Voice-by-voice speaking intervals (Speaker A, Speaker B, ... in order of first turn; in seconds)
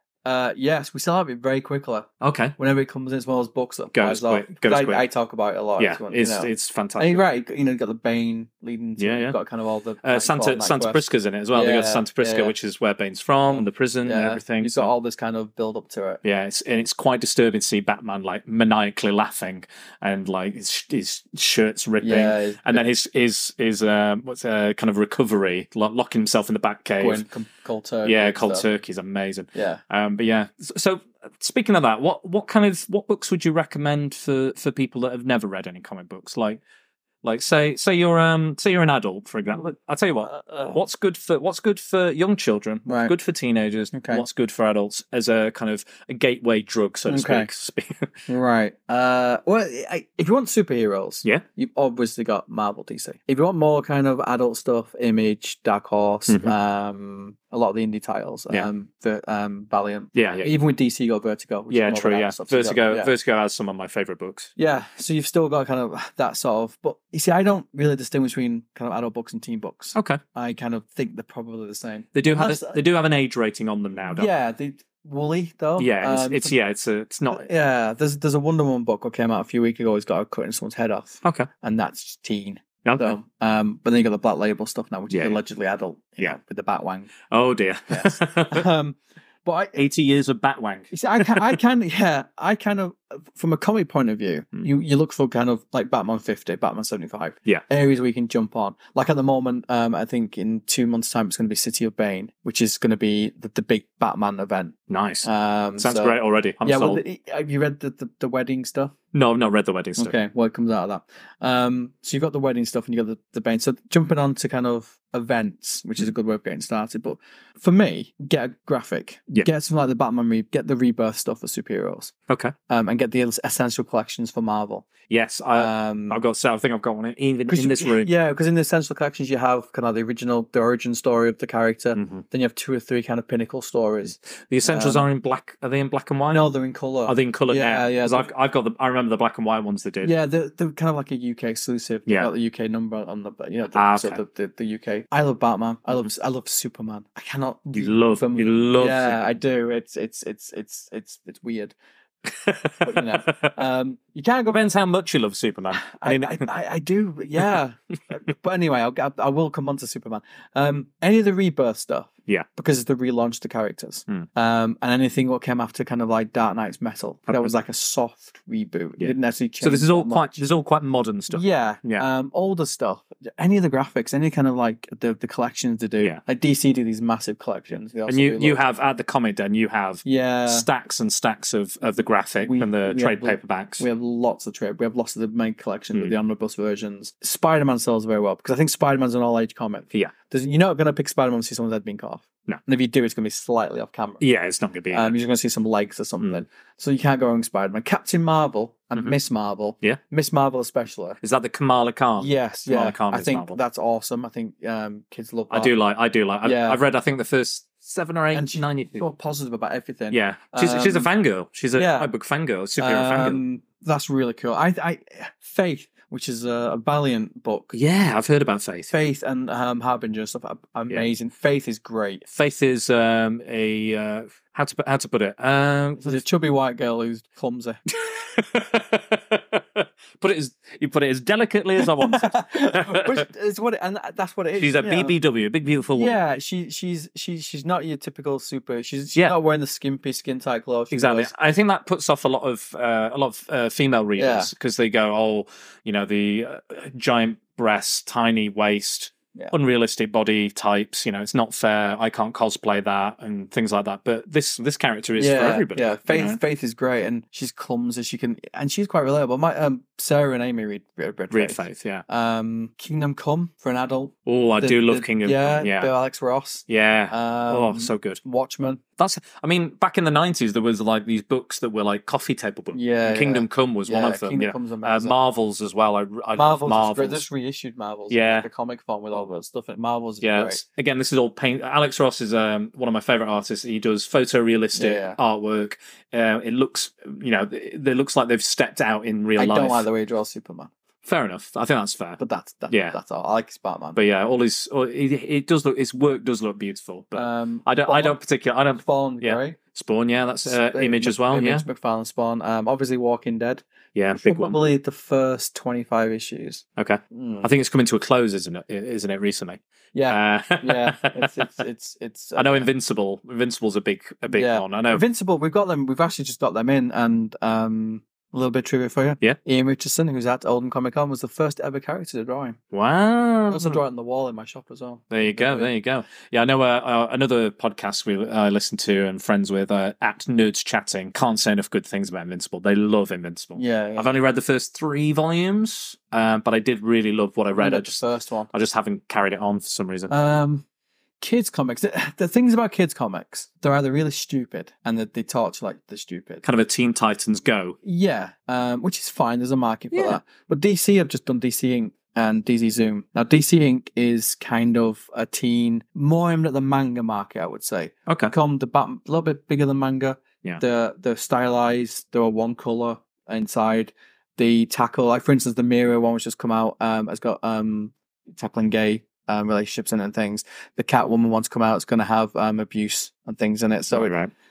Speaker A: 0.2-11.0, 11.5-12.5, 13.5-16.2, 22.0-22.9, 27.0-28.6, 29.5-29.8, 40.4-40.7, 42.9-43.1, 43.9-44.2, 47.1-47.5, 48.3-63.1, 64.6-72.8, 74.1-76.5, 77.3-87.1, 87.9-89.8, 90.9-108.9, 110.0-122.1, 122.7-124.9, 125.5-126.2, 127.5-135.0, 136.3-138.3, 140.0-151.7, 152.8-154.6, 155.8-170.4, 171.3-178.6, 180.0-180.7, 182.4-194.2, 194.9-201.2, 202.2-205.7, 206.4-206.8, 208.3-211.1, 211.7-212.1, 212.8-217.7, 218.9-222.2, 226.0-227.8, 231.8-235.1, 235.9-241.3, 244.2-244.5, 255.2-268.8, 272.7-275.1, 276.4-280.6, 284.7-285.2, 289.4-290.7, 292.2-294.0, 297.1-298.2, 298.8-299.6, 300.4-303.6, 304.2-307.5, 309.9-312.7, 314.3-322.6, 323.5-325.7, 333.6-334.1, 337.6-338.5, 340.1-340.6, 341.2-346.4, 347.8-374.1
Speaker B: 2.2-2.5, 3.9-5.1, 5.8-7.2, 9.0-9.4, 10.0-14.9, 16.2-27.2, 28.0-36.6, 37.2-48.2, 56.3-56.5, 60.1-60.5, 61.7-64.5, 69.9-70.2, 72.1-74.3, 75.8-77.5, 82.8-83.2, 85.1-85.4, 87.3-88.7, 89.7-91.5, 104.9-107.0, 109.1-110.1, 122.3-122.5, 125.1-128.1, 131.9-132.2, 134.5-136.5, 137.1-140.1, 143.7-144.2, 147.7-149.2, 152.3-153.5, 154.5-156.5, 169.0-172.1, 178.1-183.8, 194.2-195.1, 201.2-203.6, 205.5-209.0, 210.1-213.4, 217.7-218.9, 222.3-226.2, 227.9-233.2, 234.6-236.1, 240.9-256.4, 261.3-262.0, 264.2-265.9, 266.7-268.2, 269.0-277.2, 278.1-278.5, 280.2-289.9, 291.0-293.0, 293.9-301.6, 303.9-304.6, 306.8-311.5, 312.4-315.0, 322.7-323.8, 325.1-340.1, 346.4-347.8, 349.9-350.2, 358.1-358.3, 373.9-374.3